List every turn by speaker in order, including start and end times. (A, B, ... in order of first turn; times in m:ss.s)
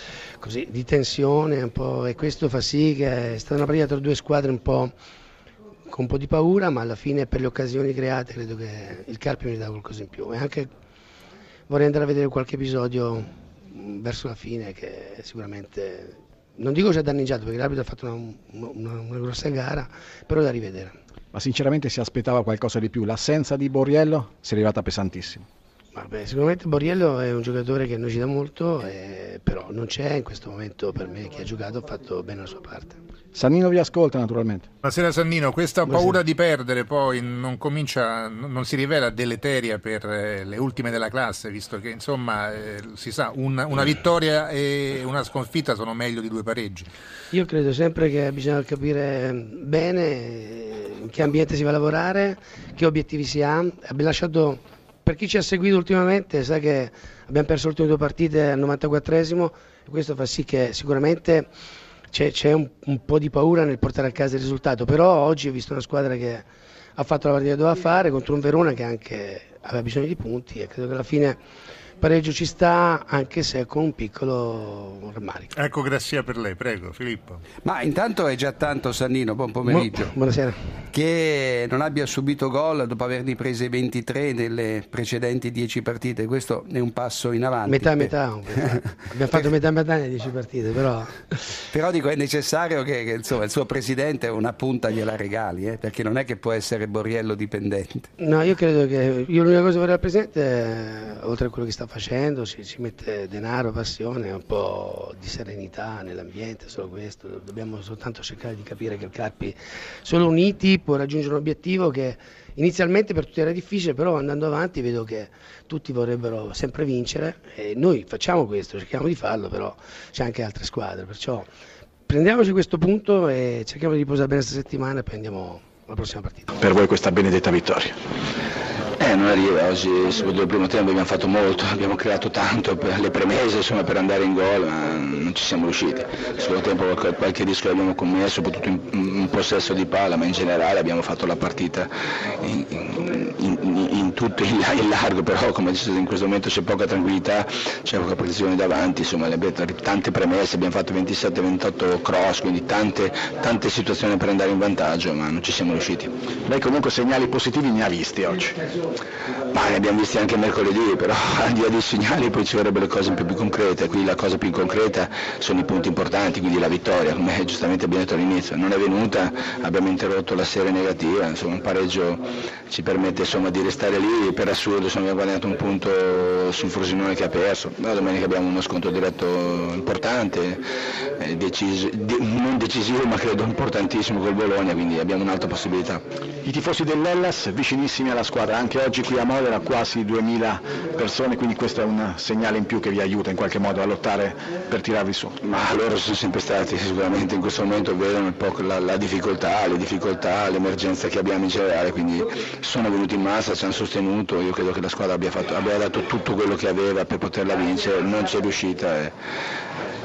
0:00.4-0:04.9 A
0:05.9-0:10.7 A
0:11.7-0:21.0 A
0:21.3-0:25.4 B
0:25.9-0:33.0 A
0:33.3-0:34.7 B
0:34.8-0:46.9 C
0:35.9-0:36.2 A
0:47.3-1:01.5 A
1:02.1-1:11.4 A
1:12.0-1:15.5 A
1:15.6-1:17.4 C
1:17.6-1:20.1 D
1:19.7-1:20.6 A
1:20.9-1:29.4 D
1:27.7-1:31.4 A
1:31.7-1:38.1 D
1:38.2-2:01.5 A
2:02.1-2:06.5 A
2:06.6-2:07.9 B
2:09.0-2:36.1 E
2:36.5-2:38.6 B
2:39.5-3:06.0 E
3:06.4-3:15.4 B
3:15.4-3:29.1 E